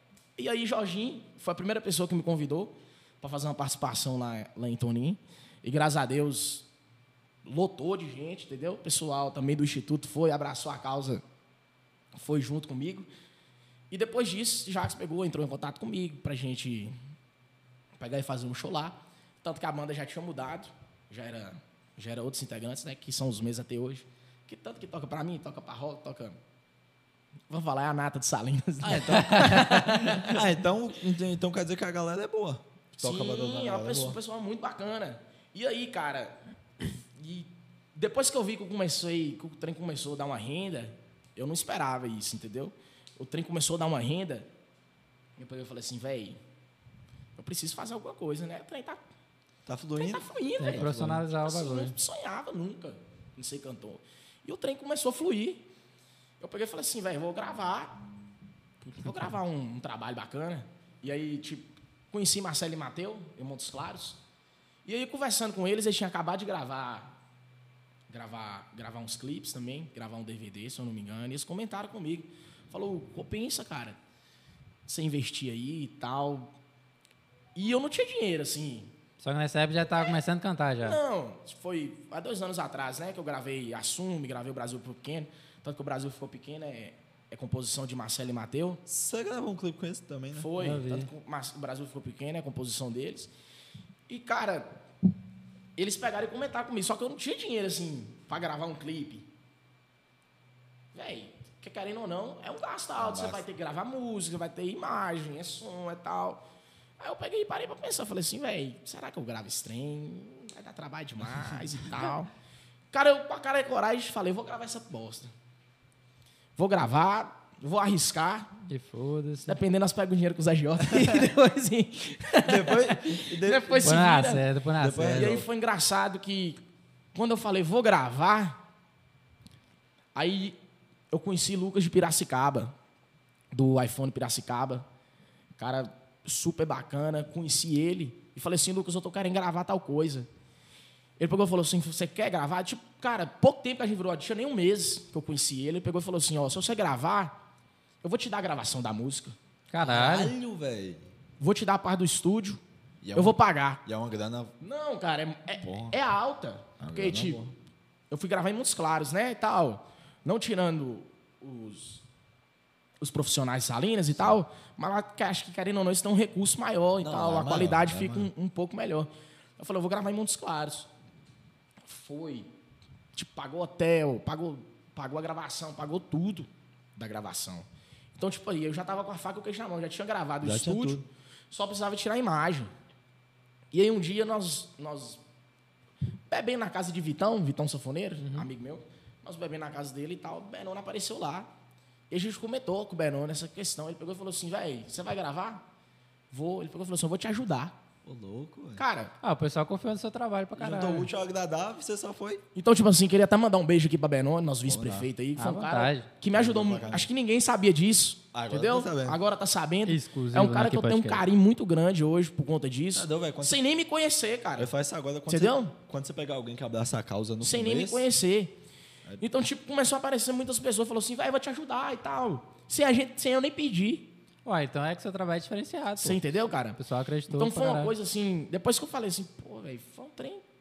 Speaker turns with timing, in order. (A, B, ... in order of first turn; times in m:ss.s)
0:00.4-0:06.7 A
0:07.4-0:11.2 A
0:12.1-0:13.1 A
0:13.9-0:17.0 A
0:18.0-0:26.4 A
0:27.5-0:30.4 A
0:28.8-0:34.2 B
0:29.4-0:29.7 C
0:33.0-0:44.5 A
0:45.4-0:46.4 A
0:47.4-0:49.0 A
0:49.6-0:51.2 B
0:50.0-0:55.6 A
0:50.6-0:51.9 C
0:56.4-0:58.0 A
0:58.9-1:04.2 A
1:04.8-1:07.1 A
1:08.1-1:14.0 A
1:14.9-1:16.5 A
1:17.5-1:18.9 A
1:19.2-1:21.0 C
1:20.8-1:28.8 A
1:28.8-1:30.5 B
1:30.3-1:33.3 A
1:30.6-1:31.1 C
1:34.1-1:34.7 A
1:35.8-1:39.3 A
1:40.9-1:46.4 A
1:43.0-1:43.4 B
1:47.0-1:52.3 A
1:52.9-1:55.3 A
1:56.6-1:58.6 A
1:58.7-1:59.6 C
1:59.4-2:04.4 A
2:02.4-2:03.9 B
2:03.8-2:05.4 C
2:04.8-2:05.4 B
2:05.1-2:06.6 A
2:07.1-2:08.6 A
2:10.1-2:10.6 A
2:11.1-2:12.7 A
2:13.5-2:14.8 A
2:15.6-2:20.3 A
2:21.2-2:27.4 A
2:28.0-2:29.3 A
2:29.7-2:30.3 C
2:29.8-2:31.0 B
2:31.4-2:32.6 A
2:33.0-2:34.5 B
2:33.1-2:33.8 A
2:34.6-2:37.4 A
2:35.6-2:36.0 B
2:36.8-2:37.5 B
2:38.1-2:42.0 A
2:43.0-2:50.9 A
2:47.0-2:48.3 B
2:51.8-2:52.5 A
2:53.1-3:02.7 A
3:00.4-3:01.0 B
3:03.7-3:05.2 A
3:06.3-3:11.5 A
3:08.2-3:08.5 C
3:12.1-3:15.6 A
3:16.3-3:17.8 A
3:18.0-3:18.8 B
3:18.8-3:19.1 A
3:19.2-3:21.1 C
3:20.6-3:22.4 B
3:22.5-3:34.7 A
3:24.7-3:25.1 B
3:25.4-3:26.1 C
3:26.3-3:27.1 B
3:28.3-3:29.2 B
3:29.8-3:31.2 C
3:32.9-3:33.6 B
3:34.6-3:38.1 B
3:35.3-3:35.7 A
3:37.4-3:38.6 A
3:39.2-3:44.1 A
3:44.4-3:46.2 C
3:46.0-3:46.8 A
3:46.8-3:47.9 C
3:47.3-3:50.4 A